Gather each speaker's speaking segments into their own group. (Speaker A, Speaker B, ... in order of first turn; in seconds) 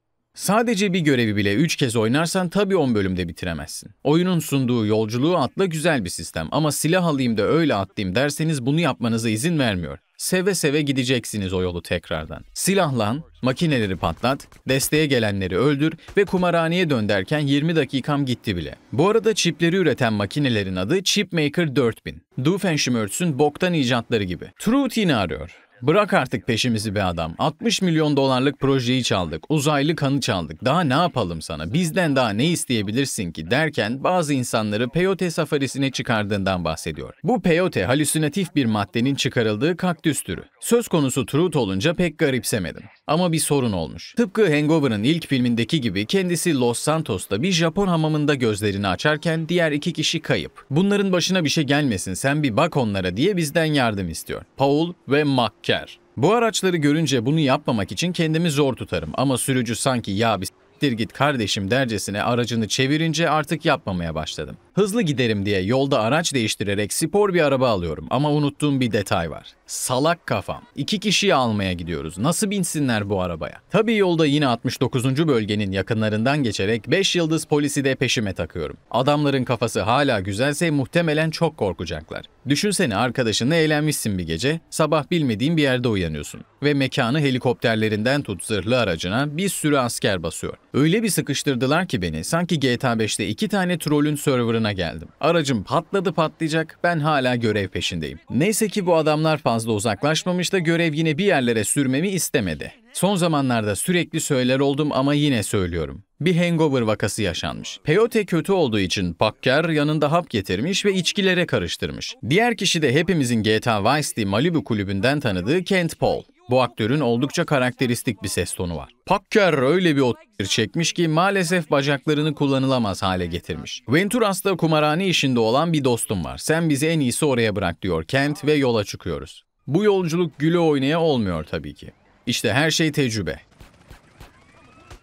Speaker A: 0.4-133.4